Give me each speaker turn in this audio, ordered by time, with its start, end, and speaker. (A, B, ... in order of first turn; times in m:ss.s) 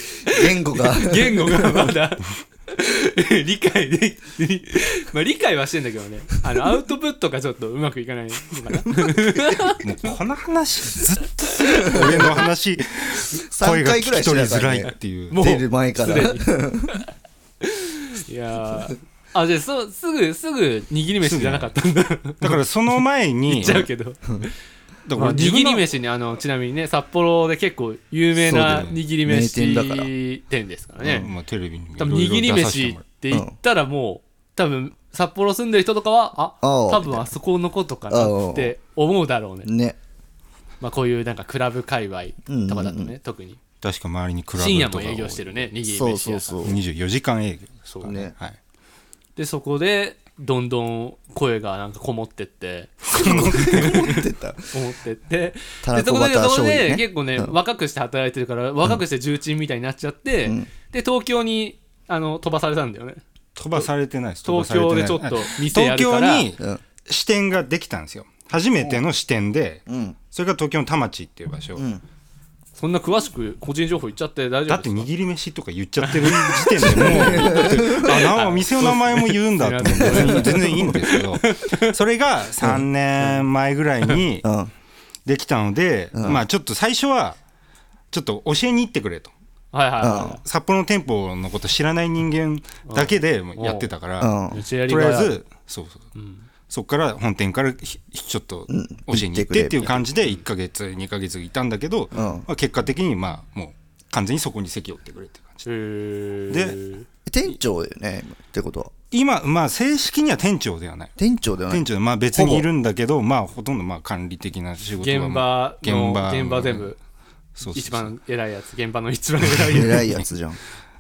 0:00.3-0:01.9 A
0:00.3-0:09.8 B
0:09.8-0:15.4 C
0:11.7-0:12.2 B
0:13.3-0:16.9 A
0:15.3-0:17.1 B
0:17.6-0:22.6 B
0:21.2-0:21.7 C
0:22.4-0:23.9 C
0:23.5-0:24.5 B
0:25.1-0:25.9 C
0:25.2-0:31.3 B
0:28.4-0:30.1 A
0:28.6-0:29.0 C
0:31.0-0:31.3 A
0:31.2-0:33.0 C
0:32.0-0:39.7 B
0:33.3-0:33.6 A
0:36.6-0:37.3 A
0:38.1-0:38.7 A
0:39.6-0:40.0 A
0:40.8-0:43.6 B
0:42.5-0:43.1 A
0:43.8-0:45.7 C
0:44.6-0:46.8 B
0:45.9-0:46.8 A
0:46.6-0:48.6 C
0:47.9-0:48.2 B
0:48.0-0:48.4 A
0:49.4-1:03.2 B
0:53.1-0:54.0 C
0:53.2-0:54.7 A
0:55.8-0:57.6 A
1:03.6-1:11.9 C
1:04.4-1:06.5 B
1:09.9-1:10.2 A
1:11.8-1:12.0 A
1:12.8-1:15.1 B
1:14.7-1:24.5 C
1:16.0-1:22.0 B
1:16.8-1:17.9 A
1:22.6-1:22.9 A
1:23.2-1:23.5 B
1:24.4-1:24.7 A
1:25.3-1:27.4 C
1:26.1-1:26.4 A
1:28.1-1:29.3 C
1:29.7-1:30.4 B
1:30.0-1:30.4 A
1:30.4-1:36.1 C
1:32.9-1:33.9 B
1:34.2-1:34.6 A
1:34.5-1:35.4 B
1:36.2-1:36.5 B
1:36.7-1:45.7 C
1:38.7-1:40.1 A
1:42.1-1:42.5 A
1:45.6-1:47.1 B
1:46.5-1:46.8 C
1:47.3-1:48.9 A
1:49.1-1:51.1 C
1:51.2-1:52.7 A
1:51.7-1:56.9 C
1:55.0-1:57.0 B
1:57.6-1:58.1 C
1:57.7-2:00.1 B
1:59.4-2:00.3 C
1:59.7-2:00.6 A